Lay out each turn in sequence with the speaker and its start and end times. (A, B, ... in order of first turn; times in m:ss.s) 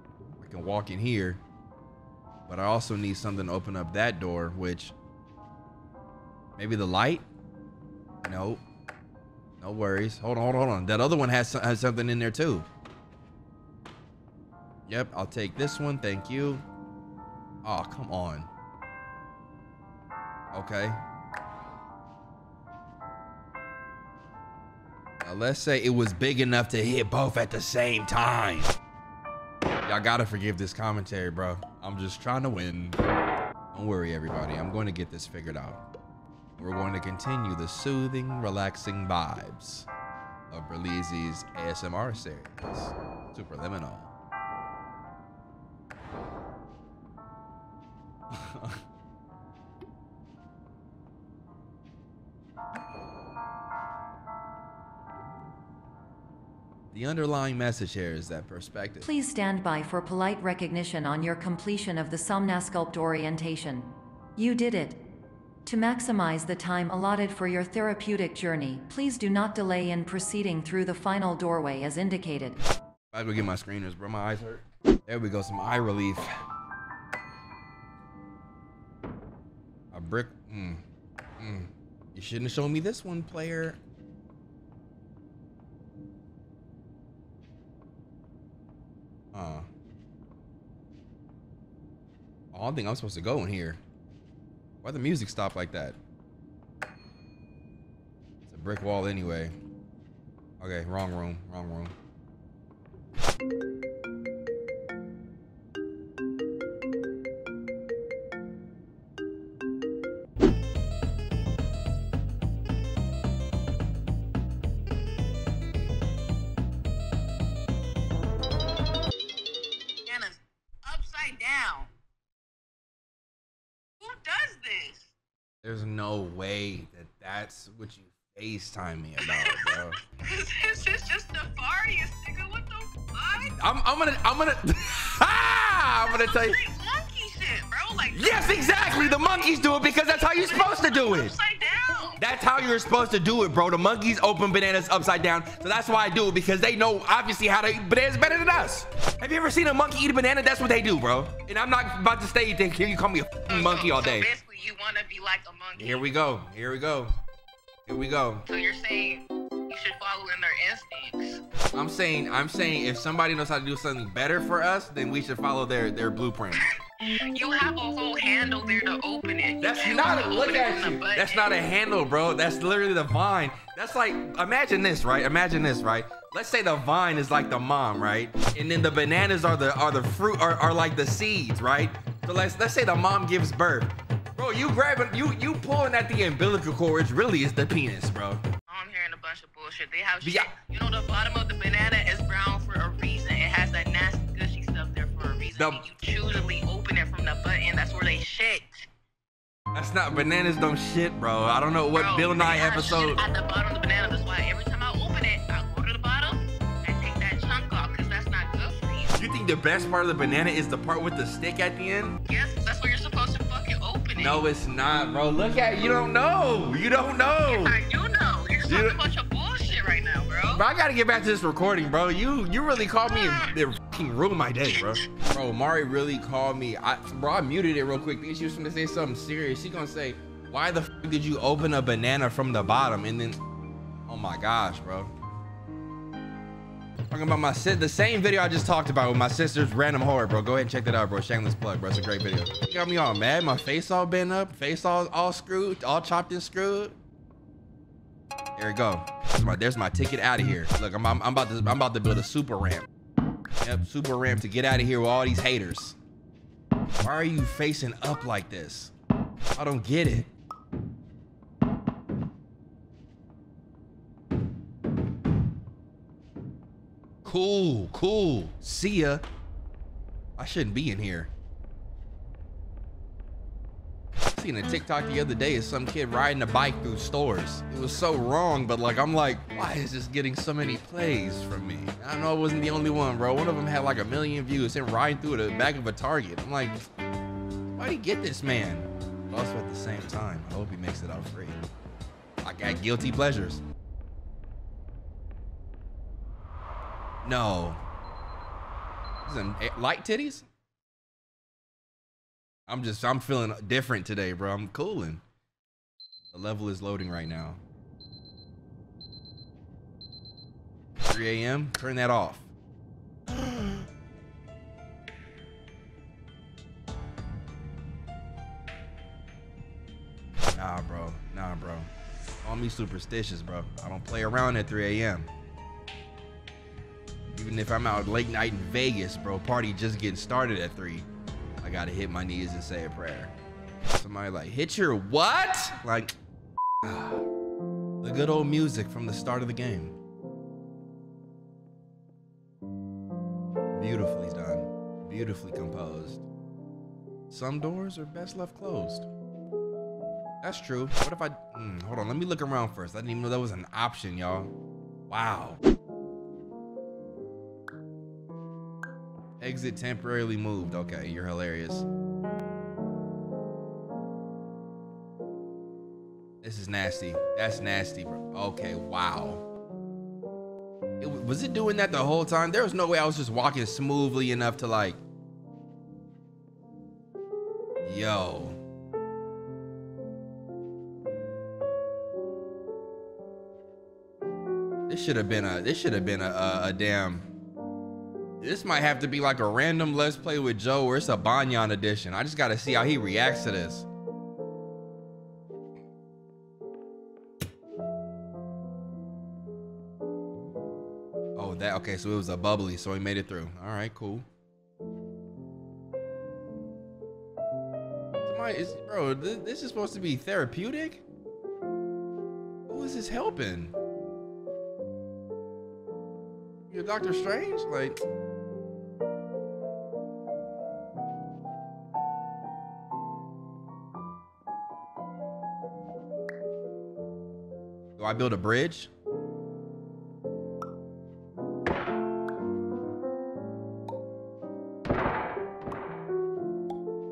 0:00.4-0:01.4 A
0:02.5-0:04.9 A
0:06.6-0:07.2 A
0:08.2-0:08.6 A
0:09.6-0:12.6 A
0:14.9-0:16.6 A
0:17.6-0:18.5 A
0:20.5-0:21.0 A
0:25.2-0:28.7 A
0:29.8-0:33.0 A
0:33.7-0:35.8 A
0:36.6-0:39.9 A
0:40.5-0:44.1 A
0:48.3-0:48.8 A
0:56.9-0:59.1 A
0:59.0-1:05.0 B
1:05.6-1:12.6 B
1:13.1-1:16.3 A
1:19.9-1:20.8 A
1:21.4-1:23.8 A
1:29.3-1:29.7 A
1:32.5-1:33.8 A
1:34.8-1:36.0 A
1:38.4-1:39.6 A
1:40.6-1:41.9 A
2:00.0-2:01.9 C
2:04.0-2:05.1 C
2:05.6-2:10.0 A
2:09.2-2:13.5 C
2:13.4-2:16.6 A
2:16.2-2:19.2 C
2:18.1-2:21.3 A
2:20.2-2:22.2 C
2:22.2-2:34.3 A
2:33.5-2:36.1 C
2:35.8-2:37.1 A
2:37.9-2:38.5 A
2:38.5-2:41.4 C
2:41.7-2:46.6 A
2:46.6-2:51.5 C
2:49.6-3:08.4 A
3:08.7-3:18.9 C
3:10.2-3:10.5 A
3:15.5-3:15.8 A
3:19.7-3:23.2 A
3:21.9-3:29.2 C
3:29.2-3:32.2 A
3:32.3-3:34.4 C
3:34.2-3:37.8 A
3:37.4-3:40.6 C
3:38.6-3:39.0 A
3:40.5-3:53.4 A
3:43.1-3:43.5 C
3:44.7-3:45.2 C
3:54.1-3:55.1 A
3:57.1-4:07.0 A
4:08.6-4:12.9 A
4:13.6-4:16.0 A
4:17.0-4:18.9 A
4:19.5-4:20.3 A
4:27.2-4:29.2 A
4:30.4-4:31.3 A
4:34.3-4:46.8 A
4:47.7-4:51.6 A
4:52.4-4:53.6 A
4:57.2-4:57.8 A
4:59.2-5:00.5 A
5:02.7-5:05.2 A
5:06.3-5:07.6 A
5:11.0-5:12.5 A
5:13.3-5:13.8 A
5:20.4-5:21.9 A
5:22.4-5:25.3 A
5:27.3-5:31.1 A
5:31.6-5:33.3 A
5:33.9-5:36.1 A
5:36.8-5:37.2 A
5:38.0-5:40.0 A
5:43.8-5:46.2 A
5:47.3-5:49.1 A
5:50.4-5:54.5 A
5:55.1-5:55.6 A
5:59.4-6:01.8 A
6:06.4-6:09.4 A
6:11.0-6:15.0 A
6:17.8-6:18.6 A
6:24.9-6:27.3 A
6:28.4-6:33.9 A
6:41.4-6:44.2 A
6:48.2-6:51.0 A
6:52.7-6:53.7 A
6:56.7-6:58.0 A
7:08.0-7:08.9 A